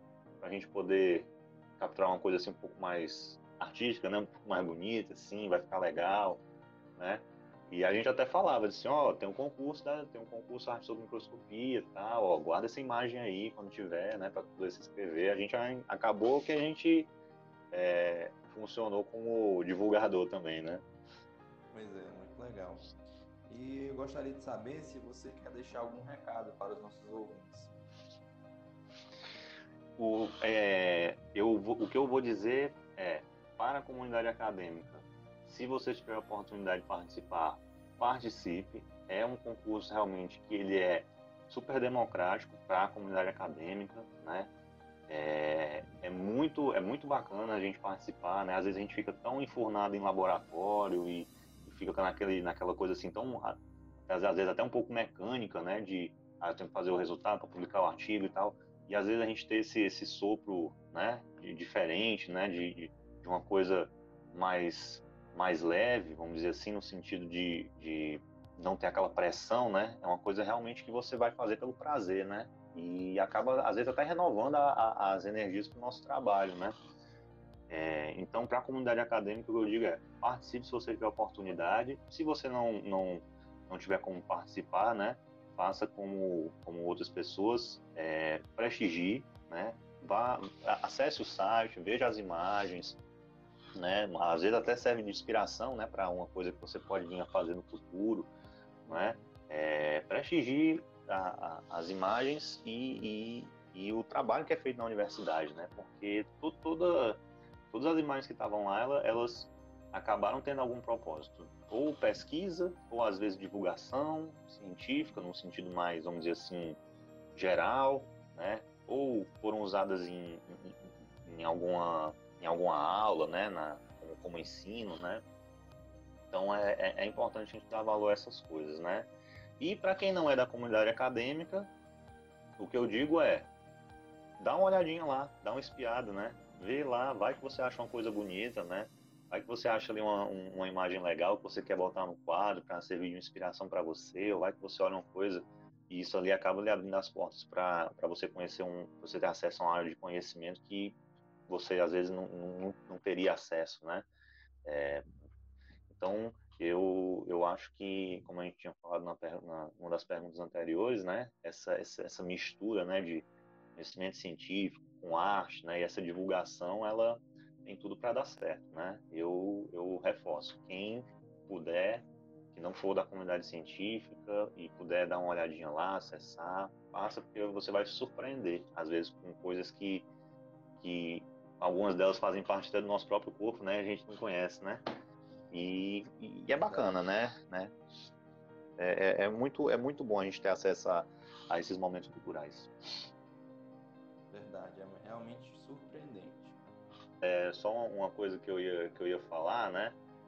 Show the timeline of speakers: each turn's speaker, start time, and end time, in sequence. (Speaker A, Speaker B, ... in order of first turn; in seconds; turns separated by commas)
Speaker A: 0.4-6.4, Speaker A: 7.0-17.1, Speaker A: 17.7-20.9, Speaker B: 21.7-22.9, Speaker B: 23.5-27.8, Speaker A: 30.0-44.5, Speaker A: 45.1-76.8, Speaker A: 77.7-93.0, Speaker A: 93.8-98.3, Speaker B: 98.9-99.3, Speaker A: 98.9-107.2, Speaker A: 107.7-116.8, Speaker A: 117.3-125.2, Speaker A: 126.3-131.7, Speaker A: 132.6-133.5, Speaker A: 134.4-151.0, Speaker A: 151.5-154.1, Speaker A: 154.7-155.0, Speaker A: 155.9-180.1, Speaker A: 180.8-184.8, Speaker A: 185.5-187.7, Speaker B: 186.5-187.0, Speaker A: 188.8-192.7, Speaker B: 194.3-196.6, Speaker A: 197.2-200.0